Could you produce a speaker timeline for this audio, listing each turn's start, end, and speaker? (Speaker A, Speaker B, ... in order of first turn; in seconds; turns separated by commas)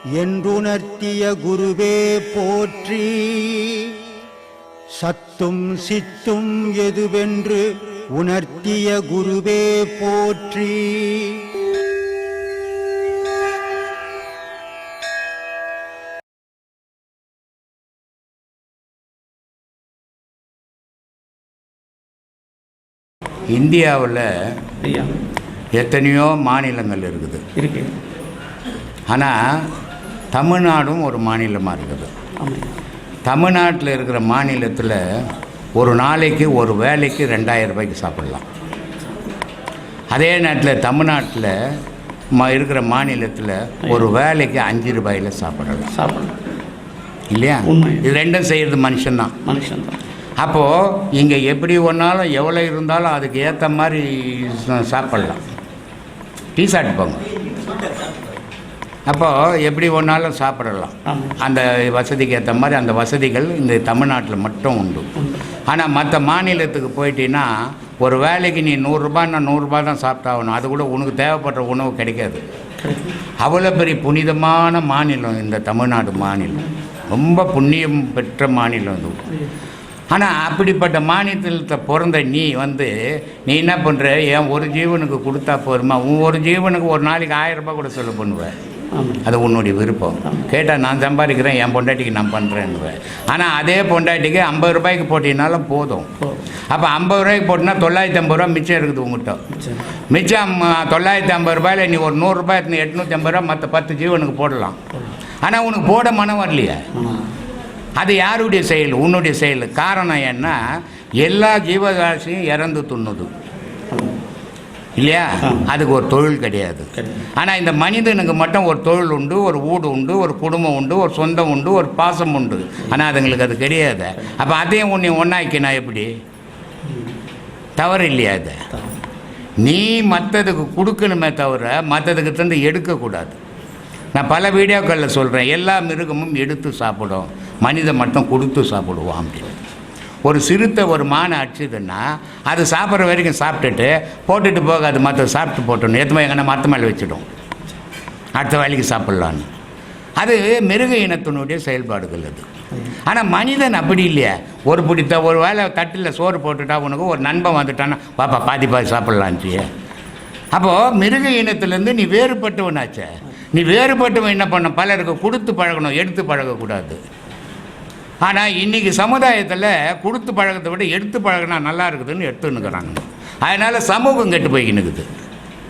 Speaker A: 0.1-3.9, Speaker A: 4.9-11.4, Speaker B: 23.5-24.3, Speaker C: 24.8-25.1, Speaker B: 25.7-27.4, Speaker C: 27.6-27.9, Speaker B: 29.1-29.3, Speaker B: 30.3-32.1, Speaker C: 32.4-32.7, Speaker B: 33.3-35.0, Speaker B: 35.8-38.4, Speaker B: 40.1-41.5, Speaker B: 42.4-45.9, Speaker C: 45.9-46.3, Speaker B: 47.3-49.4, Speaker C: 47.6-48.0, Speaker C: 49.4-50.0, Speaker B: 50.4-55.4, Speaker B: 56.5-57.2, Speaker B: 59.1-65.1, Speaker C: 61.1-61.3, Speaker B: 65.7-67.5, Speaker B: 68.0-72.4, Speaker C: 72.8-73.1, Speaker B: 73.4-79.2, Speaker B: 80.1-82.9, Speaker B: 83.5-88.5, Speaker C: 88.9-89.2, Speaker B: 89.2-96.1, Speaker B: 96.7-99.4, Speaker B: 100.1-104.8, Speaker B: 105.4-106.8, Speaker C: 107.0-107.2, Speaker B: 108.0-110.5, Speaker B: 111.2-113.3, Speaker B: 115.0-126.1, Speaker B: 127.8-128.6, Speaker B: 129.6-133.4, Speaker B: 134.1-139.6, Speaker B: 140.2-147.2, Speaker B: 148.4-149.5, Speaker B: 150.2-152.4, Speaker B: 153.1-159.7, Speaker B: 160.5-167.0, Speaker B: 168.2-175.1